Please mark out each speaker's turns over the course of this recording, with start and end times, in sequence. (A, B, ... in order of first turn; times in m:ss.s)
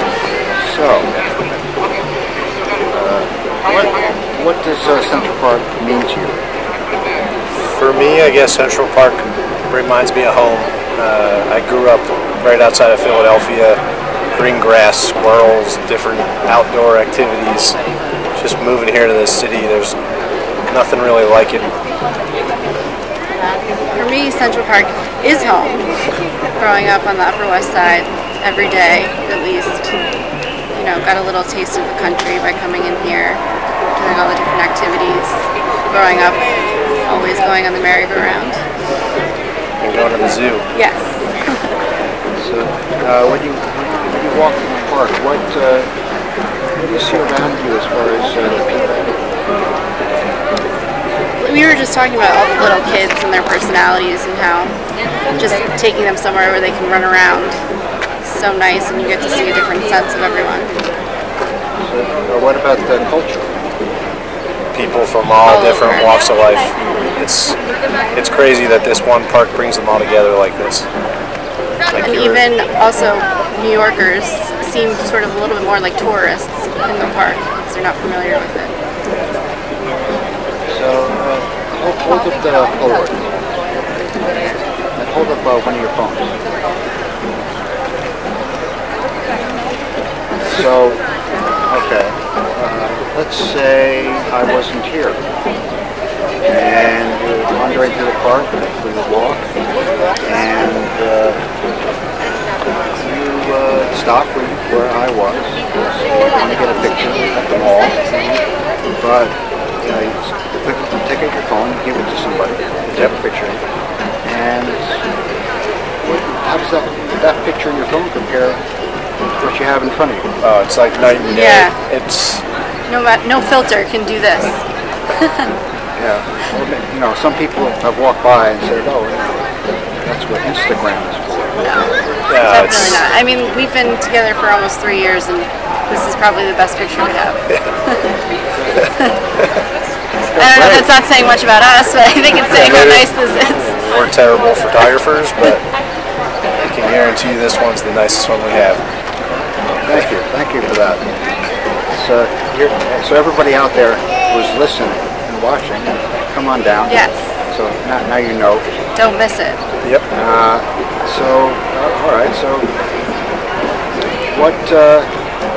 0:00.5-0:01.2 A
0:02.9-0:06.4 A
0:07.6-0:13.8 B
0:14.3-0:17.8 B
0:18.4-0:20.0 B
0:20.7-0:21.7 B
0:23.9-0:25.9 C
0:26.6-0:30.0 C
0:30.7-0:33.4 C
0:33.9-0:38.6 C
0:39.8-0:40.7 B
0:40.7-0:41.6 C
0:42.4-0:45.9 A
0:46.8-0:49.2 A
0:51.4-0:54.8 C
0:55.3-0:57.6 C
0:58.2-1:00.7 C
1:01.8-1:03.6 A
1:04.7-1:07.6 B
1:05.4-1:06.2 C
1:08.2-1:10.9 B
1:11.9-1:12.4 B
1:12.0-1:18.7 C
1:20.7-1:23.2 A
1:25.0-1:26.4 A
1:30.4-1:31.0 A
1:31.7-1:35.2 A
1:36.4-1:39.5 A
1:40.2-1:41.4 A
1:42.9-1:48.4 A
1:49.0-1:53.6 A
1:54.2-1:55.0 A
1:56.0-1:58.6 A
1:59.4-2:00.3 A
2:00.4-2:02.4 B
2:01.3-2:01.8 C
2:02.9-2:04.6 C
2:05.1-2:05.5 C
2:06.0-2:11.7 A
2:11.6-2:18.1 C
2:12.3-2:13.0 B
2:18.8-2:19.2 C
2:20.4-2:20.9 A
2:20.4-2:23.7 C
2:22.4-2:25.6 B
2:26.6-2:28.8 B
2:29.8-2:31.1 A
2:31.9-2:38.7 A
2:36.9-2:37.3 C
2:39.0-2:39.6 C
2:40.1-2:42.7 A
2:44.3-2:45.1 A